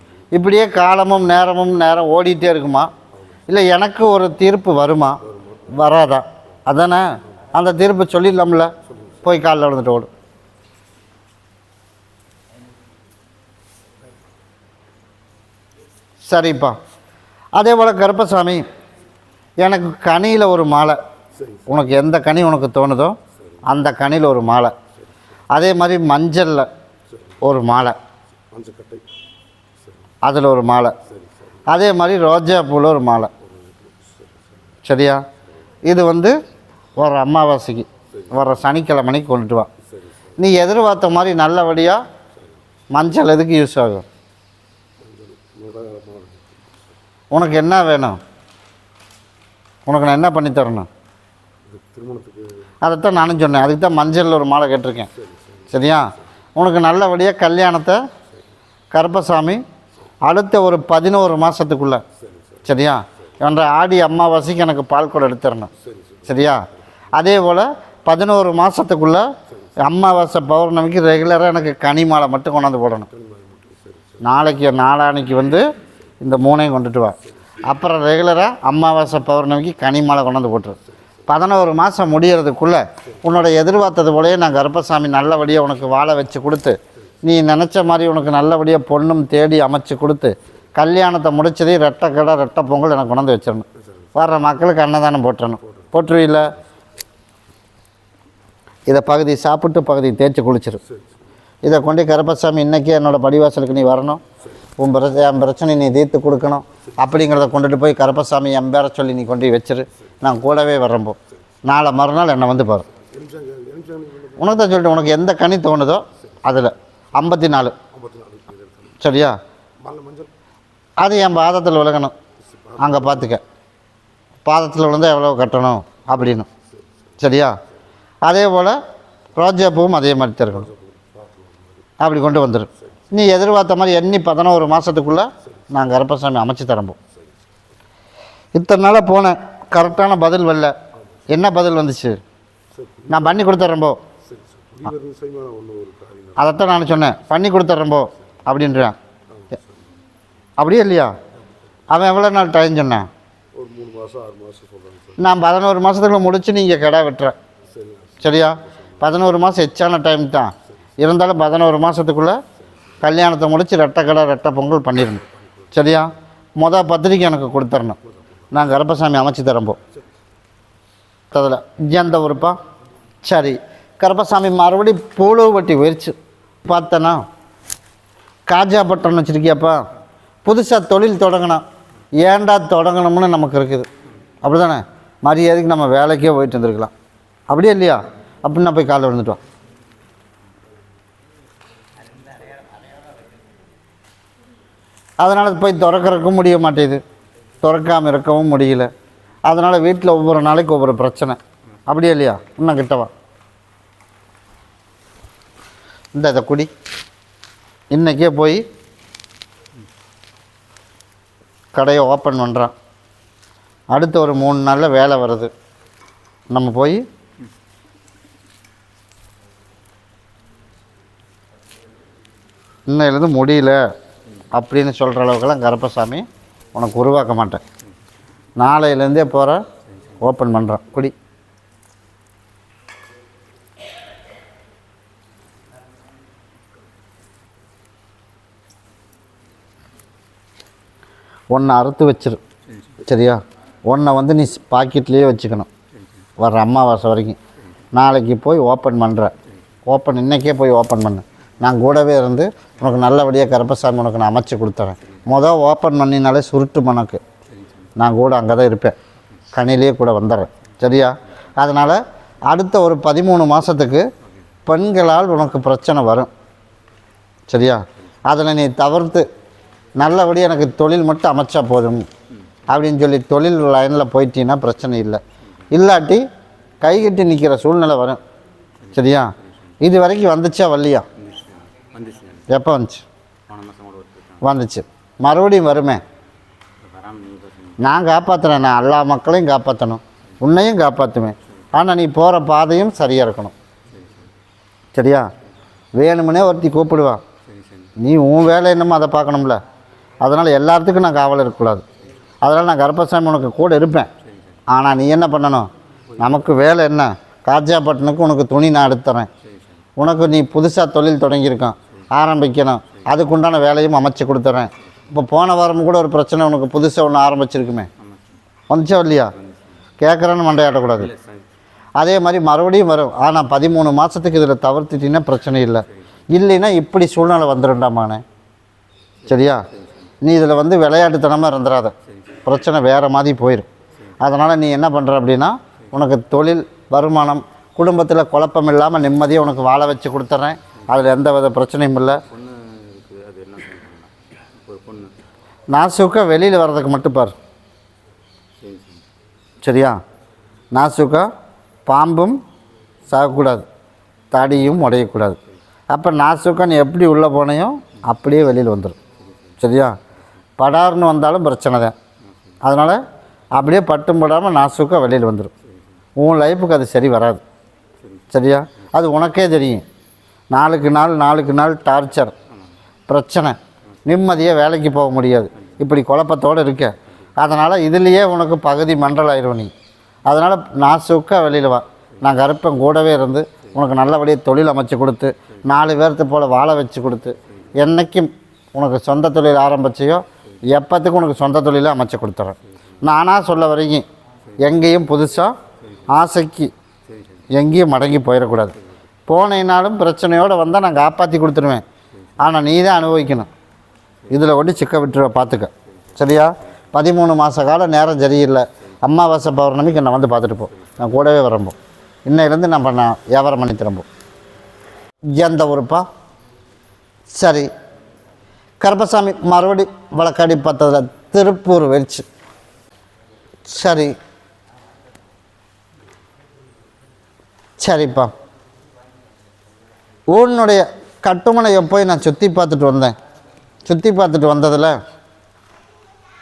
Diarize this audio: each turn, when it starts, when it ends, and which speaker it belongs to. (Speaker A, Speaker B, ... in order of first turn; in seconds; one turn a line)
Speaker A: 0.3-2.9
Speaker A: 3.5-8.7
Speaker A: 9.2-10.1
Speaker A: 16.2-16.8
Speaker A: 17.5-18.6
Speaker A: 19.6-21.0
Speaker B: 21.4-21.6
Speaker A: 21.7-24.7
Speaker A: 25.5-26.7
Speaker A: 27.4-27.9
Speaker B: 28.5-29.0
Speaker A: 30.2-30.9
Speaker A: 31.7-33.3
Speaker B: 33.4-34.3
Speaker A: 34.8-35.2
Speaker A: 35.8-36.3
Speaker A: 37.0-39.7
Speaker A: 40.4-42.0
Speaker A: 42.9-44.0
Speaker B: 45.0-46.6
Speaker A: 47.3-48.2
Speaker A: 49.9-50.9
Speaker B: 51.7-52.5
Speaker A: 52.8-55.1
Speaker B: 55.3-55.6
Speaker A: 55.7-58.0
Speaker A: 58.9-59.6
Speaker A: 60.2-62.0
Speaker A: 62.6-65.7
Speaker B: 65.9-66.2
Speaker A: 66.2-69.3
Speaker A: 69.8-73.1
Speaker B: 73.2-74.2
Speaker A: 74.2-75.7
Speaker A: 76.2-96.5
Speaker A: 98.9-100.8
Speaker A: 101.6-104.2
Speaker A: 104.8-112.8
Speaker B: 113.0-114.4
Speaker A: 114.4-117.8
Speaker B: 117.9-119.0
Speaker A: 119.0-119.4
Speaker B: 119.8-120.3
Speaker A: 121.0-122.1
Speaker B: 122.6-123.2
Speaker A: 122.8-123.4
Speaker A: 124.4-126.5
Speaker A: 127.2-127.5
Speaker A: 128.2-128.8
Speaker A: 129.3-130.7
Speaker B: 130.6-131.8
Speaker A: 132.0-137.0
Speaker A: 138.5-140.7
Speaker A: 141.3-142.2
Speaker A: 143.1-144.0
Speaker B: 144.3-146.3
Speaker A: 146.4-148.9
Speaker A: 150.6-151.1
Speaker A: 151.9-153.1
Speaker B: 153.5-155.1
Speaker A: 155.2-157.3
Speaker B: 157.8-158.2
Speaker A: 158.2-162.4
Speaker A: 163.0-168.0
Speaker A: 168.5-169.8
Speaker A: 171.3-172.6
Speaker A: 173.2-177.2
Speaker A: 178.5-179.8
Speaker A: 180.4-181.6
Speaker A: 182.2-183.9
Speaker A: 184.4-186.9
Speaker A: 187.5-189.4
Speaker A: 195.2-197.0
Speaker A: 197.6-198.9
Speaker A: 199.5-203.1
Speaker A: 206.1-206.7
Speaker A: 207.9-208.6
Speaker A: 211.7-212.7
Speaker A: 213.9-215.5
Speaker A: 216.5-217.0
Speaker A: 222.9-223.8
Speaker A: 224.5-227.6
Speaker A: 228.6-229.6
Speaker A: 230.2-231.1
Speaker A: 241.5-242.4
Speaker A: 243.0-245.7
Speaker A: 246.4-247.4
Speaker A: 247.9-249.3
Speaker A: 249.9-257.2
Speaker C: 257.6-257.9
Speaker A: 258.0-258.9
Speaker A: 259.5-264.0
Speaker A: 264.6-266.3
Speaker A: 267.5-269.2
Speaker A: 270.0-272.1
Speaker A: 272.7-276.2
Speaker A: 276.8-278.2
Speaker C: 278.9-279.4
Speaker A: 278.9-281.1
Speaker C: 281.2-282.5
Speaker A: 282.5-283.0
Speaker C: 283.5-284.4
Speaker A: 284.4-286.0
Speaker C: 286.8-287.8
Speaker A: 287.8-293.5
Speaker C: 293.9-294.3
Speaker A: 294.9-295.3
Speaker A: 295.9-297.2
Speaker C: 297.5-297.9
Speaker A: 298.0-299.6
Speaker A: 300.2-301.8
Speaker A: 302.4-304.1
Speaker A: 304.7-309.3
Speaker A: 310.0-317.9
Speaker C: 318.0-318.4
Speaker A: 318.7-319.3
Speaker A: 320.0-321.1
Speaker C: 321.0-321.4
Speaker A: 322.0-328.2
Speaker A: 329.3-329.7
Speaker C: 329.7-330.1
Speaker A: 330.2-331.9
Speaker C: 332.1-332.4
Speaker A: 332.4-333.7
Speaker A: 334.2-342.2
Speaker C: 342.3-345.1
Speaker A: 345.7-347.3
Speaker C: 348.6-349.0
Speaker A: 349.6-350.0
Speaker A: 350.7-351.3
Speaker A: 351.9-352.4
Speaker A: 353.1-353.6
Speaker A: 354.3-355.4
Speaker A: 355.9-359.0
Speaker A: 359.6-360.0
Speaker A: 360.6-361.9
Speaker A: 362.6-363.0
Speaker A: 363.5-365.5
Speaker A: 366.2-367.4
Speaker A: 368.3-369.8
Speaker A: 370.5-372.3
Speaker A: 373.1-379.7
Speaker A: 380.3-394.1
Speaker A: 394.6-395.6
Speaker A: 396.1-396.7
Speaker C: 397.1-397.4
Speaker A: 397.5-398.7
Speaker A: 399.3-401.8
Speaker A: 402.4-403.5
Speaker A: 404.3-414.1
Speaker A: 415.3-416.0
Speaker A: 417.3-417.7
Speaker A: 418.8-422.2
Speaker A: 423.6-424.1
Speaker A: 427.8-428.3
Speaker A: 430.3-433.1
Speaker A: 433.8-434.9